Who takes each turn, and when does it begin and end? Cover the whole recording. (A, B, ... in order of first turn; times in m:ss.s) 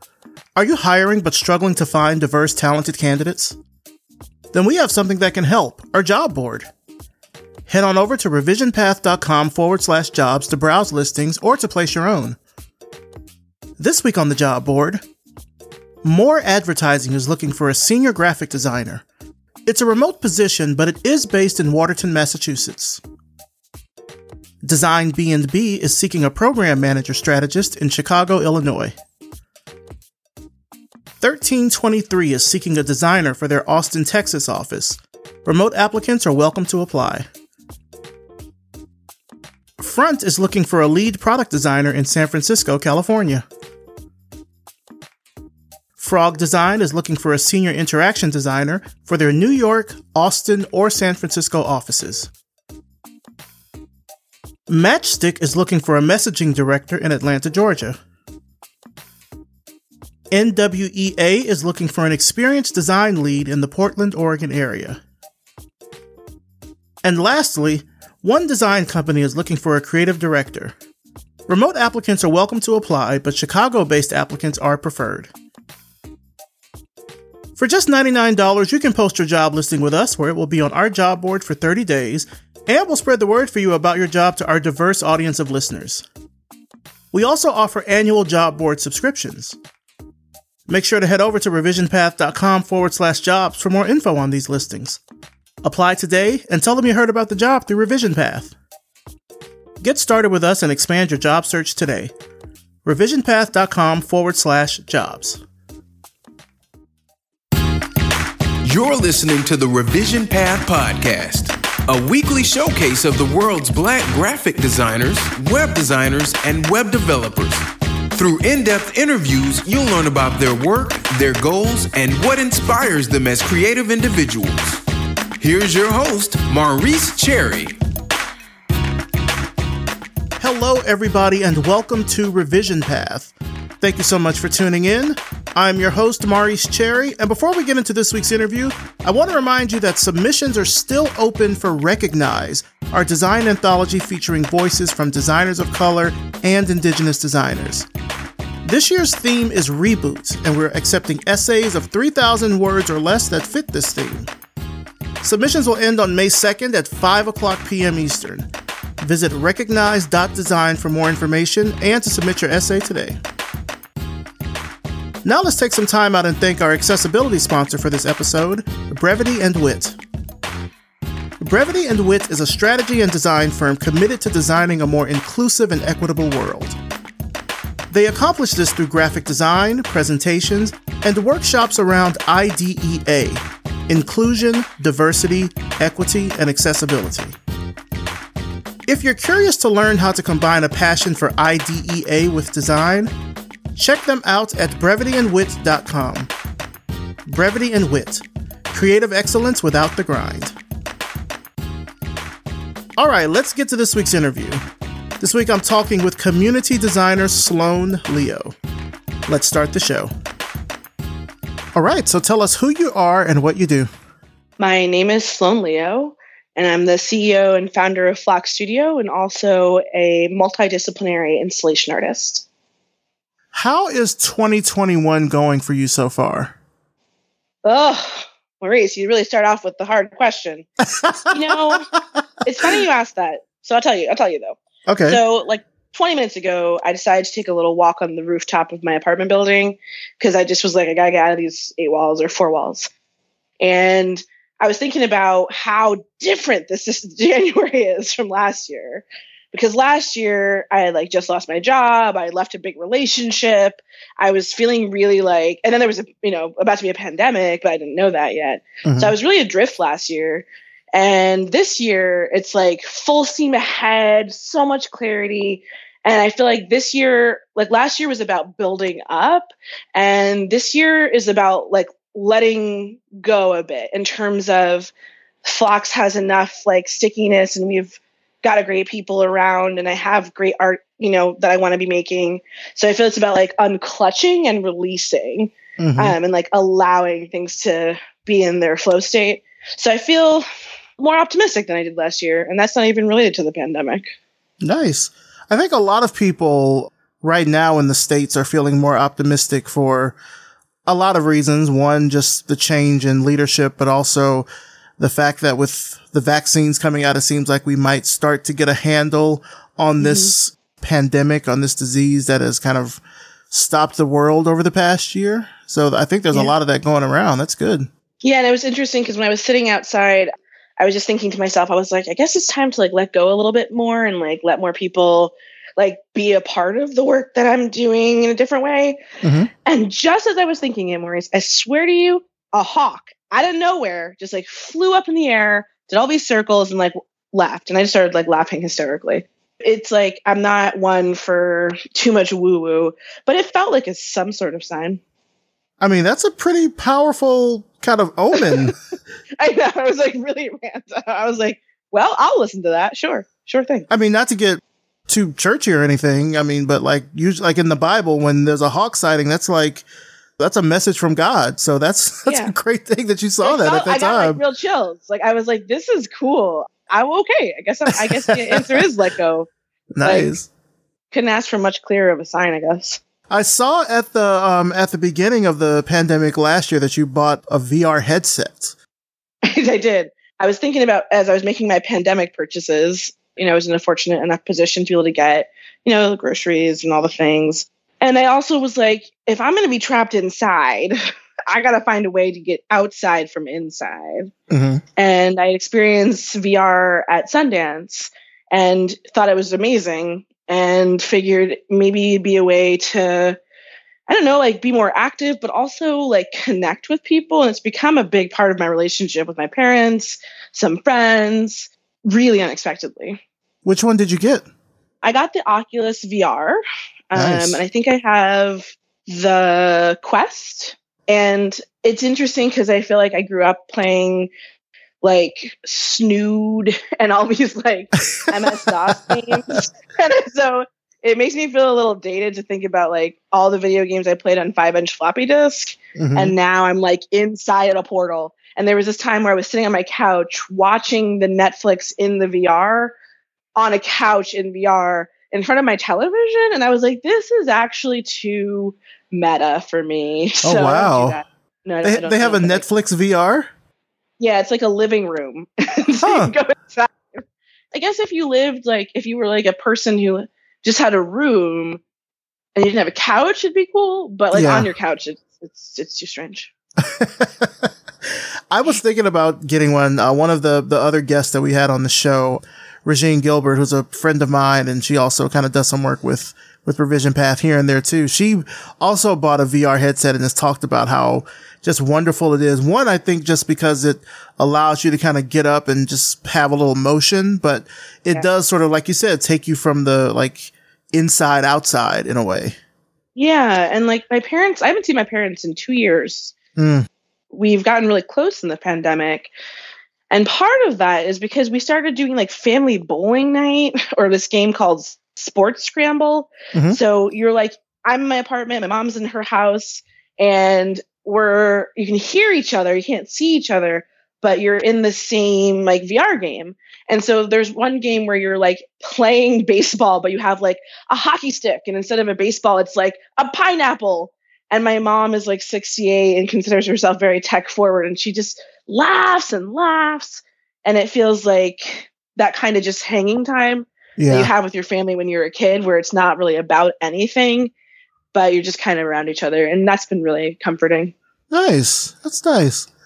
0:00.5-0:03.6 A
0:04.5-0:06.7 A
0:07.7-0:12.4 A
0:13.8-0:15.0 A
0:16.0-0:19.0 A
0:19.6-0:23.0 A
0:24.6-0:28.9 A
0:31.2-0:37.2 A
0:39.8-0:43.4 A
0:46.0-0:52.3 A
0:54.7-0:58.0 A
1:00.3-1:05.0 A
1:07.0-1:10.7 A
1:11.5-1:15.3 A
1:17.6-1:26.0 A
1:27.1-1:29.6 A
1:30.7-1:35.0 A
1:35.6-1:38.5 A
1:39.8-1:42.1 A
1:42.8-1:45.4 A
1:48.6-2:04.8 B
2:05.4-2:07.8 B
2:10.4-2:27.9 A
2:28.6-2:34.3 A
2:35.2-2:38.5 A
2:39.0-2:43.2 A
2:45.2-2:50.0 A
2:51.4-2:56.8 A
2:57.9-3:07.3 A
3:08.9-3:13.1 A
3:13.7-3:16.3 A
3:17.3-3:20.5 A
3:23.0-3:24.6 A
3:25.2-3:28.5 A
3:29.3-3:30.1 A
3:31.7-3:33.9 A
3:34.6-3:42.4 C
3:43.5-3:46.5 A
3:47.6-3:50.6 C
3:50.8-3:52.0 A
3:51.3-3:51.8 C
3:52.4-4:02.9 C
3:54.9-3:55.2 A
4:03.6-4:34.9 C
4:18.8-4:19.1 A
4:35.4-4:50.4 C
4:45.8-4:46.2 A
4:51.0-4:54.1 C
4:54.6-5:00.1 A
5:00.8-5:04.5 A
5:05.0-5:17.9 A
5:10.0-5:10.3 C
5:18.2-5:29.0 C
5:29.2-5:29.5 A
5:29.6-5:45.0 C
5:45.8-5:48.8 A
5:48.3-5:48.7 C
5:49.4-5:53.9 C
5:53.9-5:59.8 A
6:00.4-6:04.4 A
6:02.3-6:02.5 C
6:03.4-6:09.5 C
6:07.9-6:08.8 A
6:09.9-6:10.5 A
6:10.0-6:10.3 C
6:11.1-6:13.0 C
6:13.3-6:18.7 A
6:19.4-6:34.3 C
6:34.5-6:34.8 A
6:35.0-6:43.4 C
6:44.1-6:53.2 C
6:53.6-6:54.5 A
6:55.0-6:56.6 C
6:57.1-7:04.3 C
6:57.2-6:57.6 A
7:05.0-7:22.9 C
7:08.0-7:08.9 A
7:16.0-7:16.3 A
7:23.6-7:32.6 C
7:30.4-7:31.2 A
7:31.8-7:33.5 A
7:34.2-7:41.8 C
7:36.0-7:36.3 A
7:42.5-7:46.5 C
7:44.3-7:44.7 A
7:46.8-7:47.7 A
7:48.5-8:12.6 A
8:13.1-8:16.4 C
8:16.6-8:16.9 A
8:17.3-8:19.3 C
8:20.1-8:57.5 C
8:26.5-8:26.8 A
8:54.0-8:54.3 A
8:58.1-9:00.9 C
9:01.3-9:02.7 A